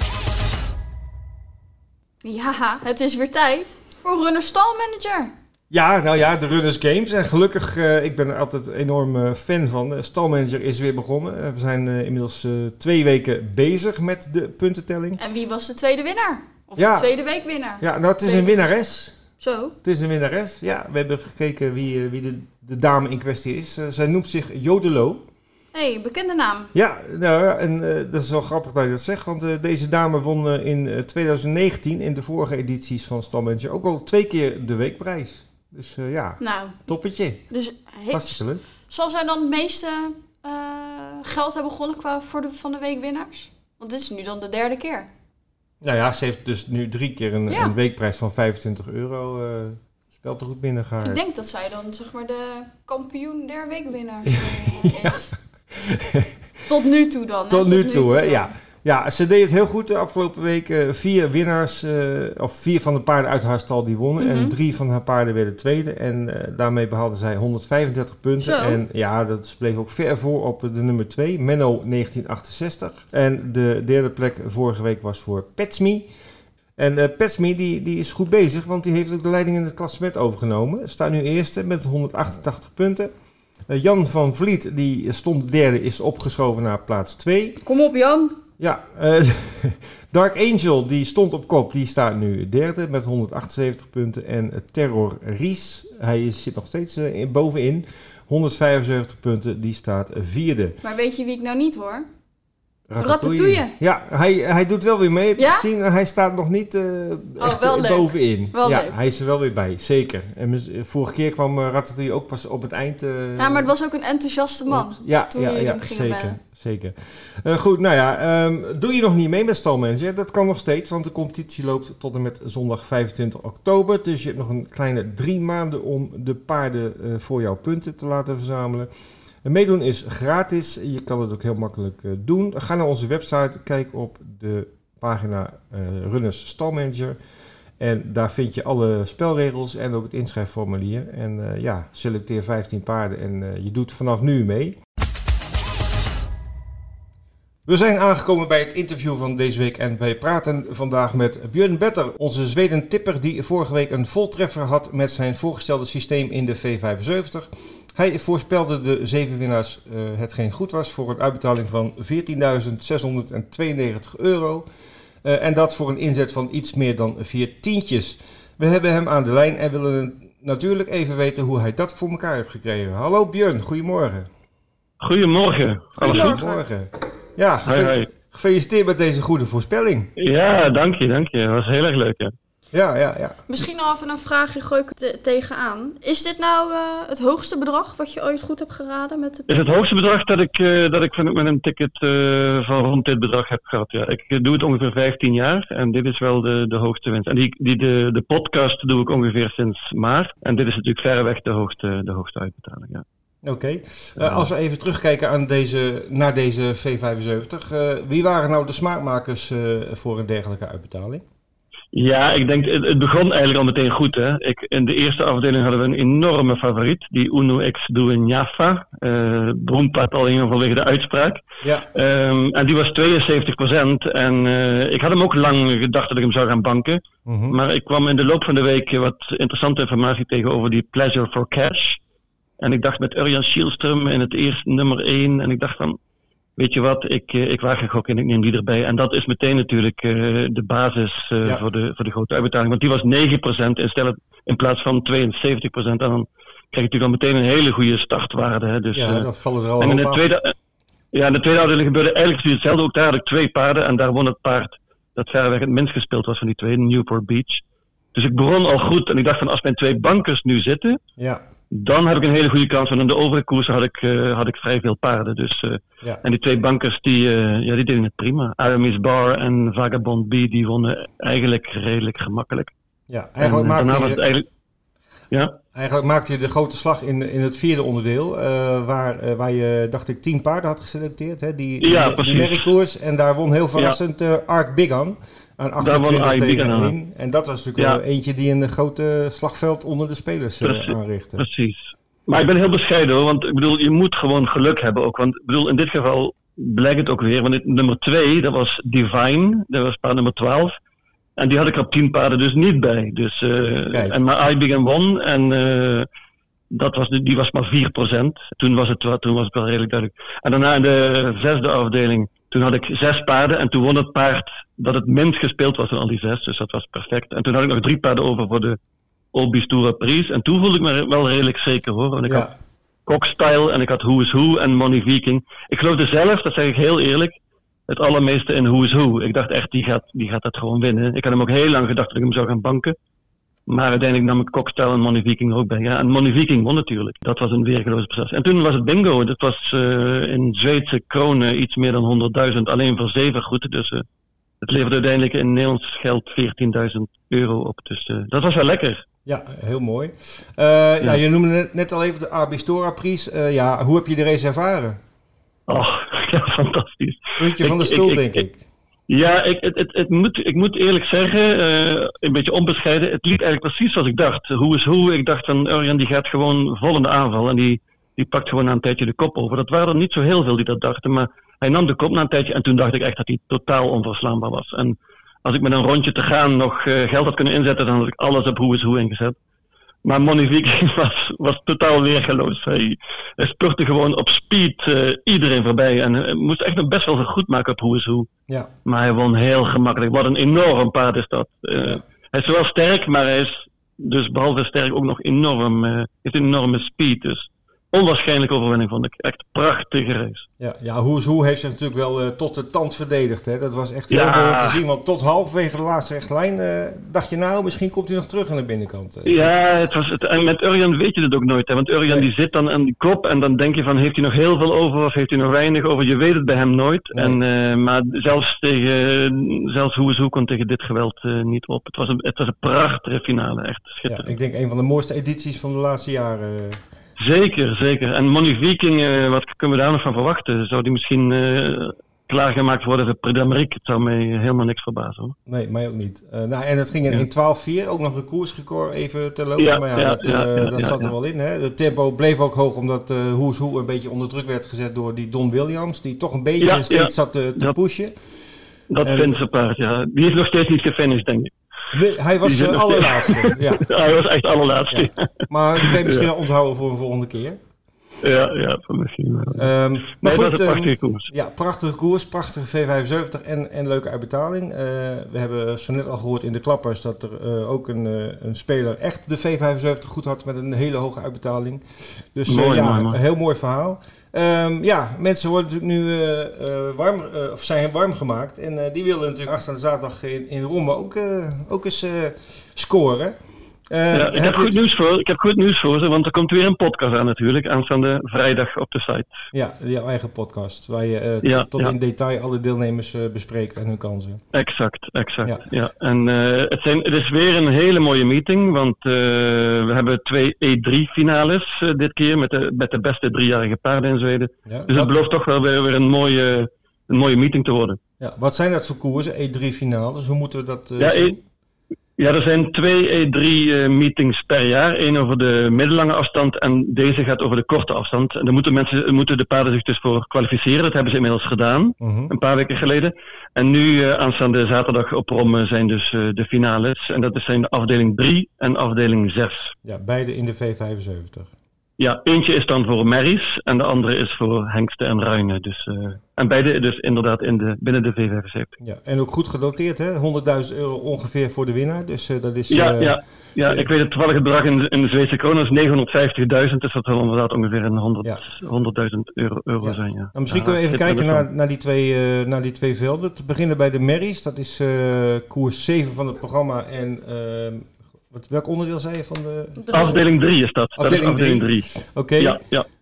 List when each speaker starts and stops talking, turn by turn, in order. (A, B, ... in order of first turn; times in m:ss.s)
0:02.2-0:05.3 A
0:05.7-0:15.2 B
0:15.2-0:18.7 A
0:16.8-0:17.1 B
0:17.8-0:19.2 B
0:19.4-0:19.8 A
0:19.8-0:25.2 B
0:25.7-0:26.7 A
0:26.7-0:37.4 B
0:36.4-0:36.8 A
0:37.5-0:45.1 A
0:38.1-0:38.6 B
0:45.8-0:51.2 B
0:47.5-0:47.7 A
0:51.0-0:55.3 A
0:54.3-0:56.6 B
0:56.7-0:58.5 A
0:57.5-1:16.1 B
1:04.2-1:04.6 A
1:08.4-1:08.8 A
1:16.8-1:23.1 B
1:23.7-1:27.6 B
1:27.6-1:28.4 A
1:28.6-1:40.8 B
1:40.8-1:42.1 A
1:42.9-1:53.7 B
1:43.0-1:43.7 A
1:45.4-1:45.7 A
1:47.4-1:48.9 A
1:53.4-1:56.4 A
1:54.7-2:08.9 B
2:09.4-2:17.2 B
2:17.8-2:24.8 B
2:27.7-2:44.7 B
2:45.2-2:54.3 B
2:55.0-2:56.4 C
2:56.0-2:56.6 A
2:56.0-3:00.1 B
2:57.7-2:58.1 C
3:00.2-3:02.3 C
3:02.7-3:03.5 B
3:03.5-3:09.9 A
3:09.5-3:23.0 C
3:23.4-3:31.2 B
3:24.2-3:24.5 C
3:31.9-3:52.0 C
3:47.3-3:47.6 B
3:52.6-3:56.0 C
3:56.6-4:09.3 C
4:08.9-4:10.4 B
4:09.8-4:10.5 C
4:11.1-4:17.6 C
4:18.1-4:21.0 C
4:21.2-4:21.4 B
4:21.7-4:32.7 C
4:33.1-4:34.2 B
4:33.4-4:34.5 C
4:35.3-4:35.6 C
4:35.7-4:51.4 B
4:41.8-4:42.7 C
4:45.8-4:46.9 C
4:50.6-5:00.8 C
5:01.4-5:06.1 C
5:03.9-5:04.2 B
5:06.7-5:18.8 C
5:19.3-5:22.5 C
5:22.3-5:22.5 B
5:23.1-5:33.0 C
5:33.7-5:44.0 C
5:44.6-5:49.0 C
5:49.2-5:55.0 B
5:55.7-5:58.4 C
5:57.4-5:58.6 B
5:59.1-6:19.4 C
6:20.0-6:28.3 C
6:28.8-6:40.5 C
6:40.6-6:49.5 B
6:44.1-6:44.8 C
6:49.3-7:04.3 C
6:57.1-6:57.4 B
7:04.1-7:06.8 B
7:07.2-7:15.4 C
7:15.5-7:28.2 B
7:19.6-7:21.1 C
7:26.6-7:27.8 C
7:28.9-7:31.6 C
7:29.0-7:29.3 B
7:31.9-7:33.8 B
7:32.4-7:36.3 C
7:34.9-7:37.6 B
7:38.2-7:41.3 C
7:39.6-8:03.4 B
7:52.5-7:53.2 C
8:03.9-8:04.8 B
8:04.1-8:09.3 C
8:09.5-8:14.4 B
8:11.4-8:11.9 C
8:14.5-8:28.0 C
8:24.7-8:25.1 B
8:28.2-8:31.4 B
8:31.0-8:31.4 C
8:32.2-8:49.7 C
8:42.0-8:42.3 B
8:49.8-8:51.5 B
8:52.0-8:58.8 C
8:58.8-9:03.9 B
9:02.7-9:11.4 C
9:09.8-9:20.2 B
9:19.8-9:20.2 A
9:19.9-9:22.9 C
9:21.0-9:22.6 B